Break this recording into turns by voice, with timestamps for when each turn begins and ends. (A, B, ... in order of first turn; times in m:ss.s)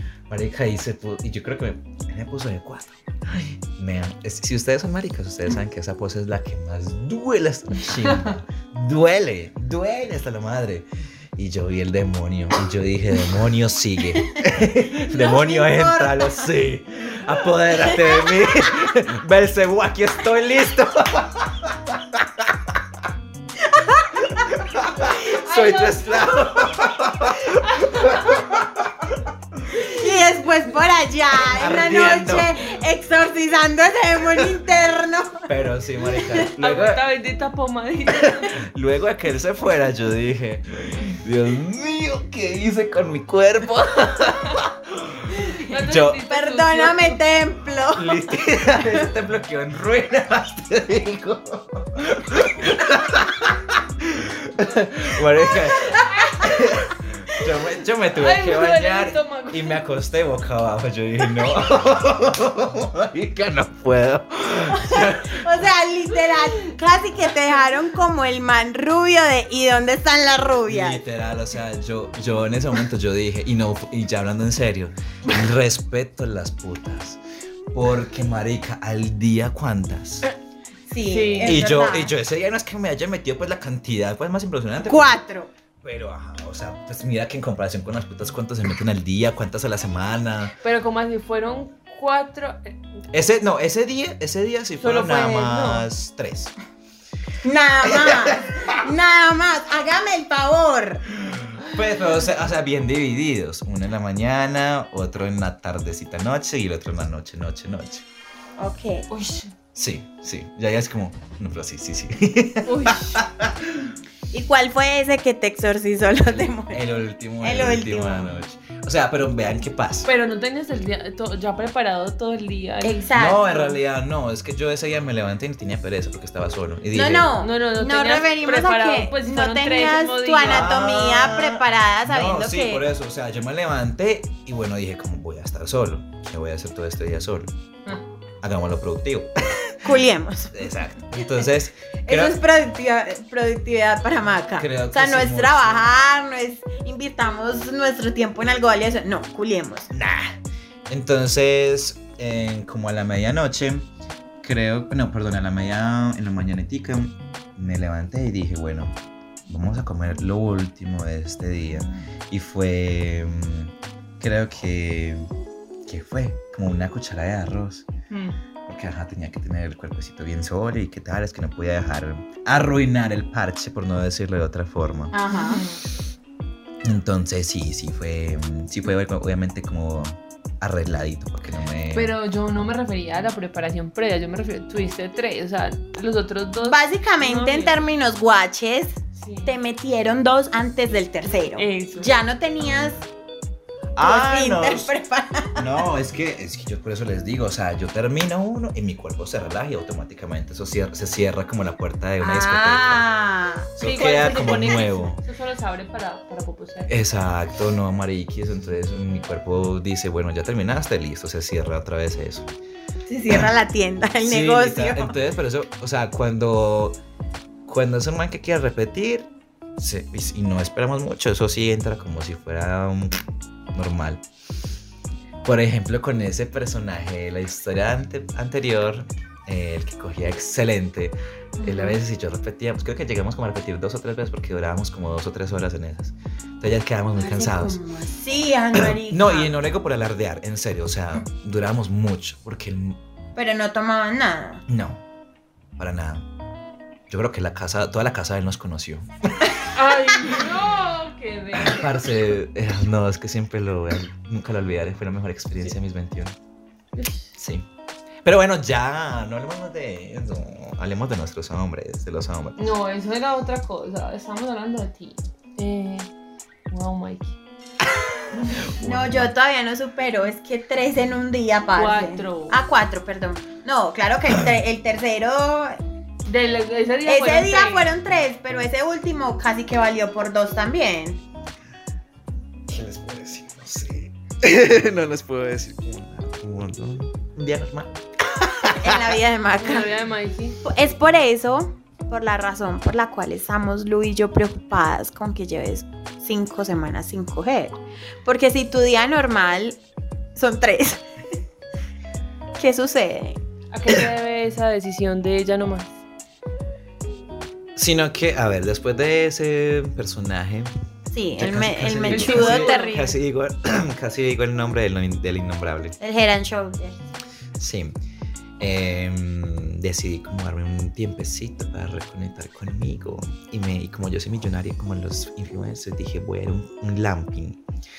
0:00.3-0:22.8 A
0:15.0-0:16.5 B
0:17.9-0:18.3 B
0:23.6-0:24.2 B
0:24.3-0:28.9 A
0:25.1-0:26.3 C
0:27.6-0:28.4 C
0:29.8-0:35.5 B
0:31.4-0:32.6 A
0:35.5-0:37.0 A
0:36.2-0:36.5 B
0:36.6-0:38.5 C
0:38.2-0:46.2 A
0:45.5-0:47.2 C
0:46.3-0:49.0 B
0:48.0-1:05.7 A
0:55.8-0:56.5 B
0:58.2-0:59.8 C
1:04.7-1:11.0 B
1:10.7-1:17.2 A
1:17.7-1:20.2 A
1:20.9-1:22.1 B
1:21.0-1:21.6 C
1:21.4-1:25.2 A
1:24.8-1:25.5 B
1:25.8-1:30.5 A
1:30.6-1:32.8 C
1:33.1-1:36.5 A
1:34.8-1:35.8 C
1:37.4-1:41.0 B
1:37.8-1:38.7 A
1:41.2-1:48.0 A
1:48.6-1:49.1 B
1:49.1-1:49.5 C
1:49.7-1:53.9 A
1:52.6-1:53.2 C
1:54.3-1:56.8 B
1:56.4-2:00.1 A
1:57.4-1:58.3 B
2:00.0-2:03.0 C
2:02.8-2:03.7 B
2:03.1-2:07.3 A
2:06.9-2:12.8 B
2:07.4-2:10.7 C
2:10.4-2:17.5 A
2:18.4-2:20.0 A
2:19.8-2:20.6 B
2:20.5-2:22.4 A
2:22.0-2:29.9 B
2:24.6-2:26.0 A
2:29.9-2:30.4 A
2:30.9-2:33.9 A
2:34.4-2:38.9 A
2:39.5-2:45.3 A
2:45.8-2:47.9 A
2:48.1-2:48.4 C
2:48.7-2:55.2 A
2:55.1-2:55.6 B
2:55.3-2:55.8 C
2:56.8-3:02.2 A
3:01.9-3:07.8 C
3:06.6-3:13.0 B
3:09.2-3:09.6 C
3:11.2-3:12.1 C
3:12.6-3:12.9 A
3:14.0-3:14.9 A
3:14.0-3:15.7 B
3:15.6-3:23.0 A
3:22.2-3:23.8 B
3:23.8-3:25.2 A
3:23.8-3:27.0 C
3:26.9-3:32.5 A
3:33.1-3:35.1 B
3:33.3-3:33.5 A
3:34.2-3:37.0 A
3:37.6-3:43.2 A
3:43.7-3:44.2 A
3:45.4-3:57.8 A
3:51.6-3:52.0 B
3:57.1-3:59.5 B
3:58.7-4:03.0 A
4:03.4-4:04.6 B
4:04.7-4:05.0 A
4:05.8-4:06.2 A
4:07.1-4:09.5 A
4:09.7-4:12.0 C
4:10.3-4:10.5 A
4:11.5-4:16.4 A
4:17.0-4:17.3 C
4:17.3-4:17.6 A
4:18.2-4:22.7 A
4:22.6-4:26.1 C
4:26.7-4:27.4 C
4:28.3-4:28.7 C
4:28.7-4:29.3 A
4:28.8-4:35.8 B
4:31.8-4:32.6 C
4:36.2-4:37.9 C
4:37.0-4:41.2 B
4:42.7-4:49.2 A
4:48.8-4:49.9 B
4:49.6-4:50.6 C
4:50.6-4:59.8 B
5:00.3-5:01.0 B
5:02.6-5:03.4 B
5:03.7-5:06.0 C
5:07.8-5:10.7 A
5:11.1-5:13.1 B
5:11.3-5:16.0 A
5:12.1-5:12.9 C
5:16.0-5:17.0 B
5:17.6-5:18.0 A
5:18.6-5:27.6 A